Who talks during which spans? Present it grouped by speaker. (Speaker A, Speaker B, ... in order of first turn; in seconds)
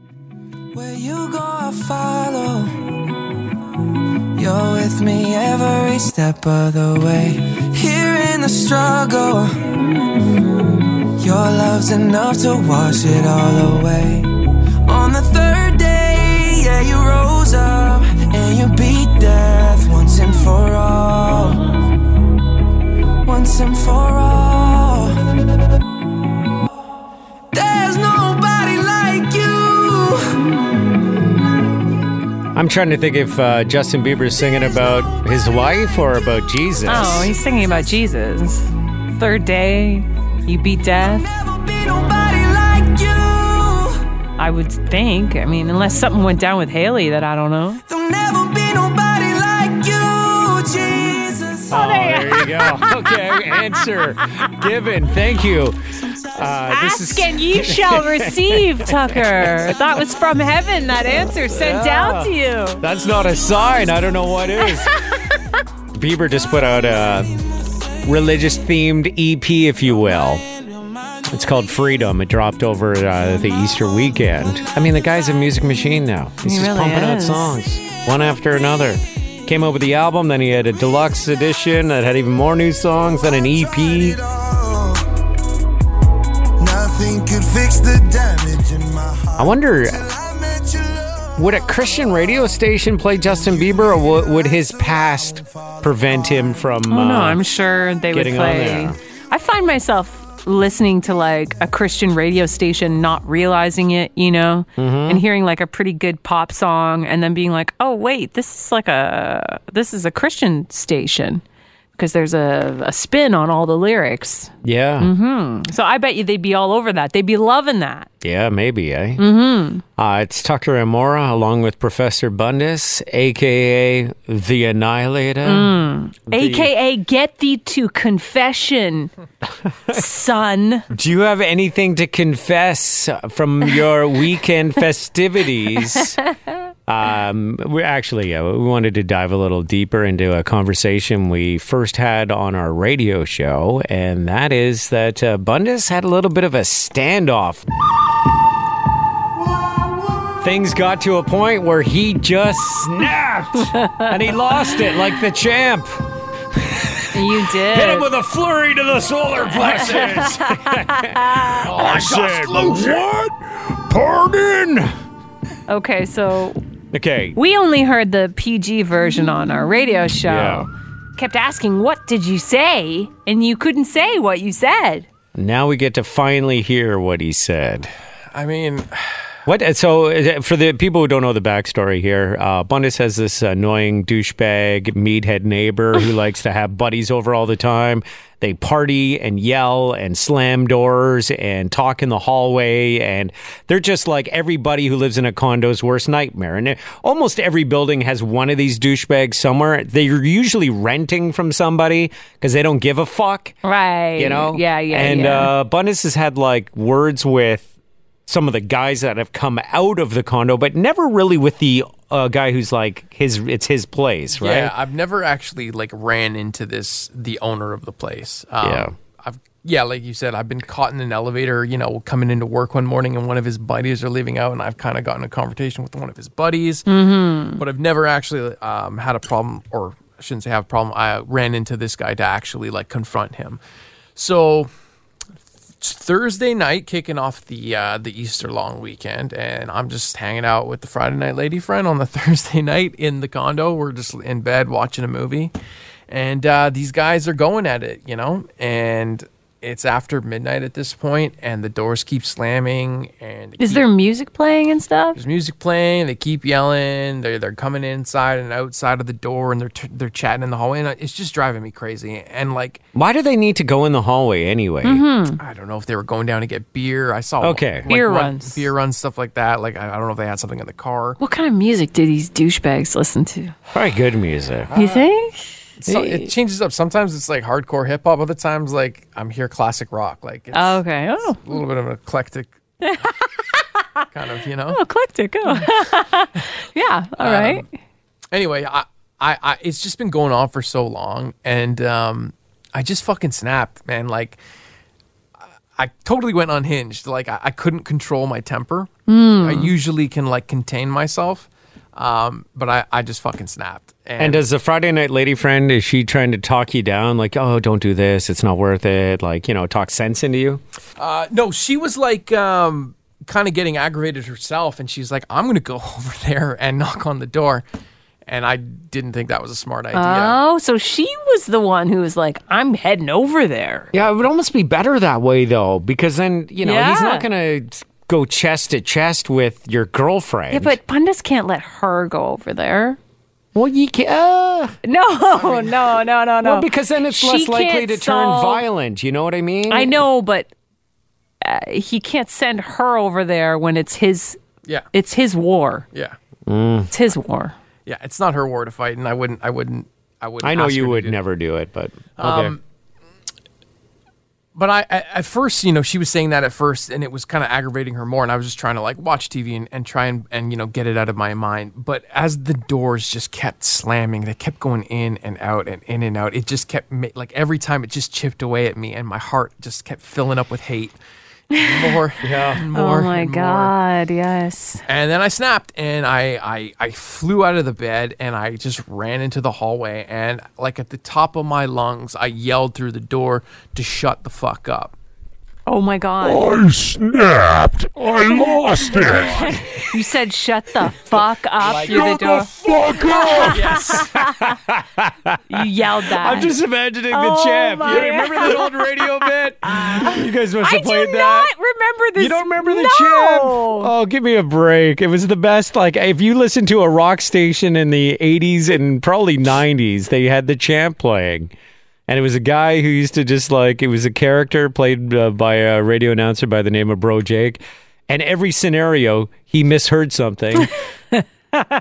Speaker A: 0.7-2.9, 4.3-9.7, 10.3-21.6, 23.2-25.2, 27.5-30.4, 41.2-44.0, 47.9-51.8
Speaker B: 32.5-37.3, 51.7-59.8, 61.4-65.0, 65.9-67.3, 68.0-70.4, 71.2-84.2, 89.4-90.0, 91.4-97.4, 98.1-99.0, 104.8-105.2, 114.6-115.1, 118.2-119.2, 120.0-125.7, 126.3-126.7, 130.9-136.2, 136.8-147.6, 150.4-156.0, 156.5-164.9, 166.9-167.4, 170.2-170.7, 175.3-177.9, 179.4-203.6, 204.2-207.7, 208.3-214.7, 218.6-218.9, 262.9-265.0, 267.4-267.9, 273.7-274.8, 275.9-276.3, 304.2-310.6, 323.9-330.8, 333.5-334.8, 336.4-340.0, 346.4-346.9, 350.4-352.6, 372.2-372.6, 394.0-395.6, 396.1-401.5, 402.1-411.5, 412.1-420.7
Speaker C: 36.8-41.3, 44.4-47.8, 51.7-53.3, 56.6-62.8, 64.7-64.9, 76.4-77.6, 96.8-111.4, 112.0-118.1, 119.2-119.8, 125.4-129.1, 129.9-130.8, 153.8-154.1, 157.1-158.1, 159.4-161.7, 165.7-166.6, 167.3-175.1, 203.6-205.5, 226.9-227.6, 253.6-255.2, 264.8-265.4, 267.9-268.6, 271.2-273.5, 274.7-275.4, 280.5-281.5, 282.8-283.6, 284.7-287.7, 299.1-299.7, 319.9-323.9, 326.6-327.3, 330.5-333.0, 334.8-338.6, 339.7-340.5, 341.4-344.4, 344.9-345.9, 346.9-347.5, 371.5-372.0, 372.7-374.8, 385.6-386.5, 388.6-394.3, 395.5-396.5, 397.1-403.9
Speaker D: 83.4-85.1, 86.6-92.1, 93.2-96.8, 161.9-162.8
Speaker E: 159.8-160.2, 161.7-162.9, 178.3-179.0, 214.4-226.9, 227.6-233.6, 234.2-234.7, 235.8-245.5, 246.1-253.9, 255.2-262.8, 265.4-271.2, 275.8-282.5, 284.1-284.8, 287.2-287.6, 288.3-294.4, 295.8-304.4, 311.0-317.6, 318.3-320.4, 335.4-335.9, 347.9-351.2, 352.2-352.6, 354.5-370.9, 371.5-373.7, 374.9-384.9, 391.6-392.4, 393.4-394.1
Speaker F: 386.2-389.6, 391.6-393.9